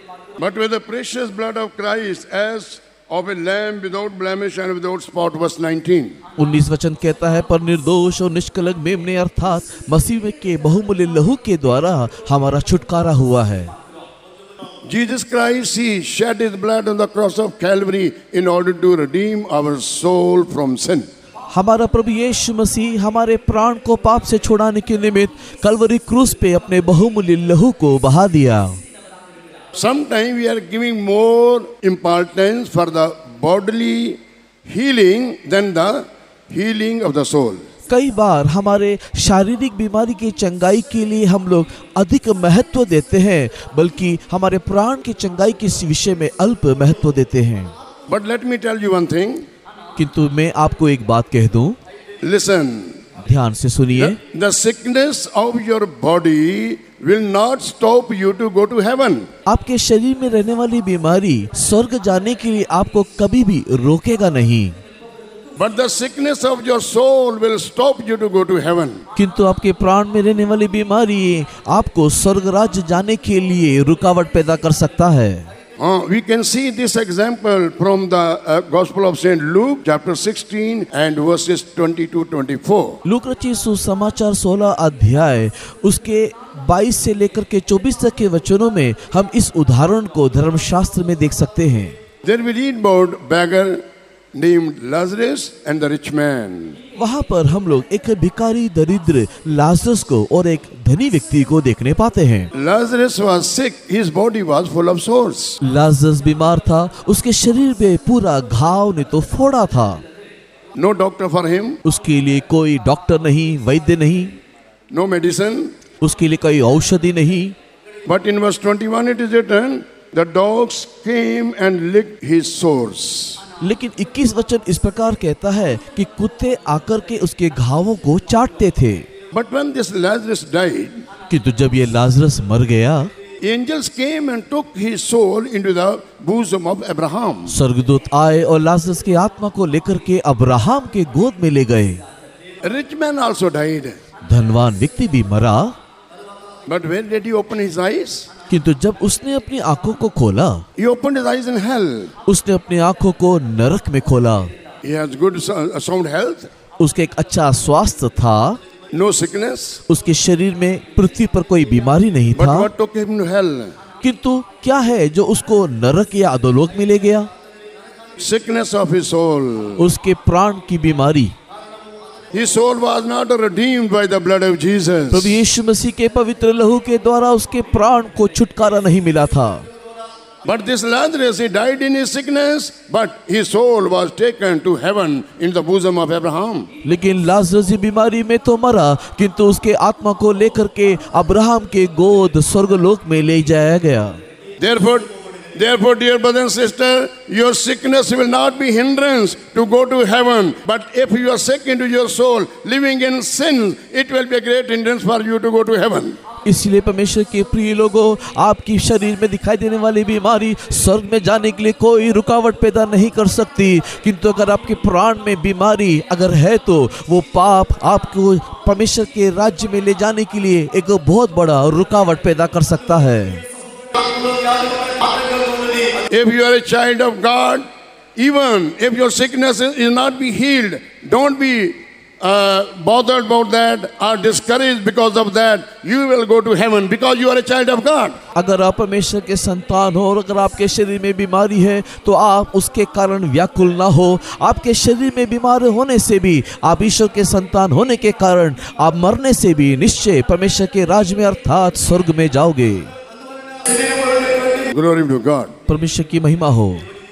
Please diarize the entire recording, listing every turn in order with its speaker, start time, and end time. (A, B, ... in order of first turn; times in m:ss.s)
0:00.4-0:06.2 A
0:06.4-0:13.7 B
0:14.9-0:21.1 A
0:21.5-0:28.8 B
0:29.7-0:37.6 A
0:37.9-0:47.7 B
0:48.1-0:49.4 A
0:50.0-0:51.8 B
0:52.2-0:53.0 A
0:53.2-0:54.2 B
0:54.0-0:59.3 A
0:59.5-1:04.8 B
1:05.6-1:09.0 A
1:09.2-1:15.5 B
1:15.8-1:23.0 A
1:23.0-1:32.0 B
1:32.2-1:33.8 A
1:34.3-1:36.8 A
1:37.0-1:42.5 B
1:42.5-1:45.6 A
1:45.6-1:50.0 B
1:50.8-1:51.8 A
1:51.8-1:54.4 B
1:54.9-1:55.7 A
1:56.0-1:57.6 B
1:58.1-2:03.4 A
2:03.6-2:09.1 B
2:09.3-2:11.0 A
2:11.3-2:13.1 B
2:13.4-2:17.6 A
2:17.5-2:22.0 B
2:22.6-2:24.0 A
2:24.2-2:25.8 B
2:26.7-2:28.3 A
2:28.5-2:30.7 B
2:30.8-2:32.1 A
2:32.3-2:34.5 B
2:34.8-2:36.5 A
2:36.8-2:38.6 B
2:38.9-2:39.8 A
2:39.9-2:42.7 B
2:42.3-2:43.7 A
2:44.0-2:47.3 B
2:48.2-2:49.8 A
2:49.8-2:51.4 B
2:52.3-2:55.4 A
2:55.1-2:59.7 B
3:00.4-3:06.7 A
3:06.8-3:14.2 B
3:14.6-3:26.2 A
3:26.4-3:43.4 B
3:46.0-3:58.2 A
3:58.3-4:12.9 B
4:13.7-4:15.5 A
4:15.7-4:16.8 B